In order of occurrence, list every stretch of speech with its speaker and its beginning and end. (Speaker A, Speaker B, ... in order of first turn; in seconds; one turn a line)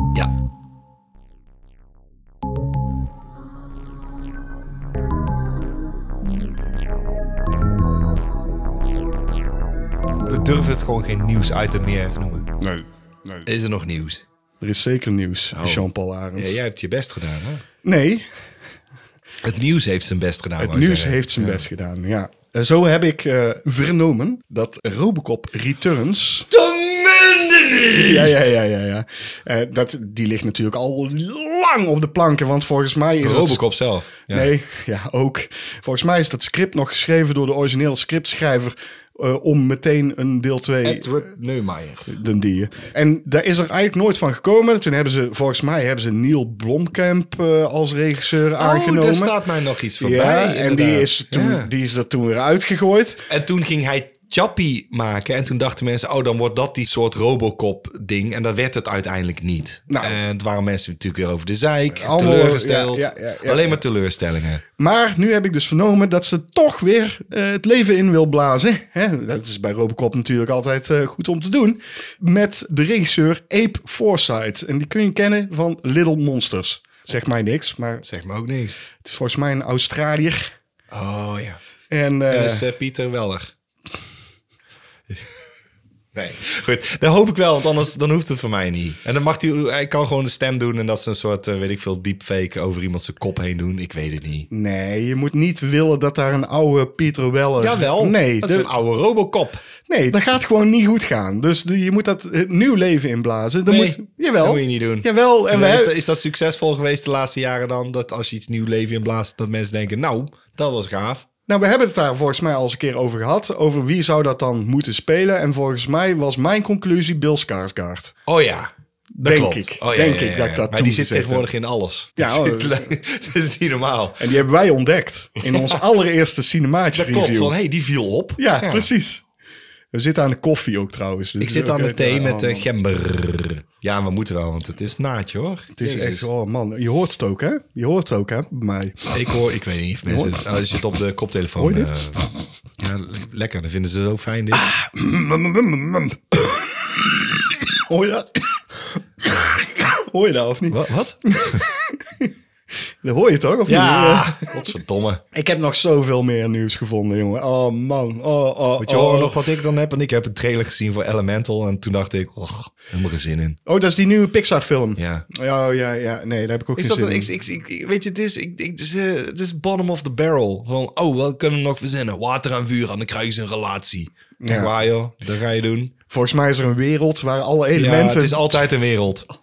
Speaker A: 10.2-12.5
Speaker B: 12.6-13.5
Speaker A: 13.4-14.2
Speaker B: 14.6-16.6
Speaker A: 15.5-17.6
Speaker B: 17.8-18.3
Speaker A: 19.4-21.6
Speaker B: 20.6-26.5
Speaker A: 26.5-28.3
Speaker B: 28.0-33.6
Speaker A: 33.2-34.5
Speaker B: 34.3-41.2
Speaker A: 40.8-42.1
Speaker B: 42.1-49.4
Speaker A: 48.6-51.7
Speaker B: 50.0-53.2
Speaker A: 53.3-64.6
Speaker B: 59.9-60.2
Speaker B: 61.9-63.8
Speaker B: 64.8-78.0
Speaker A: 78.0-78.8
Speaker B: 79.0-80.5
Speaker A: 80.9-81.6
Speaker B: 81.9-82.7
Speaker A: 82.3-83.5
Speaker A: 86.1-94.5
Speaker B: 94.5-98.7
Speaker A: 97.6-99.6
Speaker B: 99.9-105.9
Speaker A: 103.7-111.2
Speaker B: 111.5-118.1
Speaker A: 118.3-124.3
Speaker B: 119.2-121.5
Speaker B: 122.2-122.9
Speaker B: 124.2-127.5
Speaker A: 126.9-128.9
Speaker B: 128.4-129.2
Speaker B: 129.9-132.7
Speaker A: 131.4-136.2
Speaker B: 135.8-139.3
Speaker A: 139.1-142.2
Speaker B: 140.1-140.5
Speaker B: 141.6-142.3
Speaker A: 142.8-144.7
Speaker B: 144.5-152.3
Speaker A: 150.7-151.7
Speaker B: 153.0-154.5
Speaker A: 153.7-155.2
Speaker B: 155.3-159.4
Speaker A: 158.8-163.6
Speaker B: 163.7-167.3
Speaker A: 165.0-165.2
Speaker A: 166.8-175.9
Speaker B: 174.4-174.7
Speaker B: 176.1-178.7
Speaker A: 177.7-179.3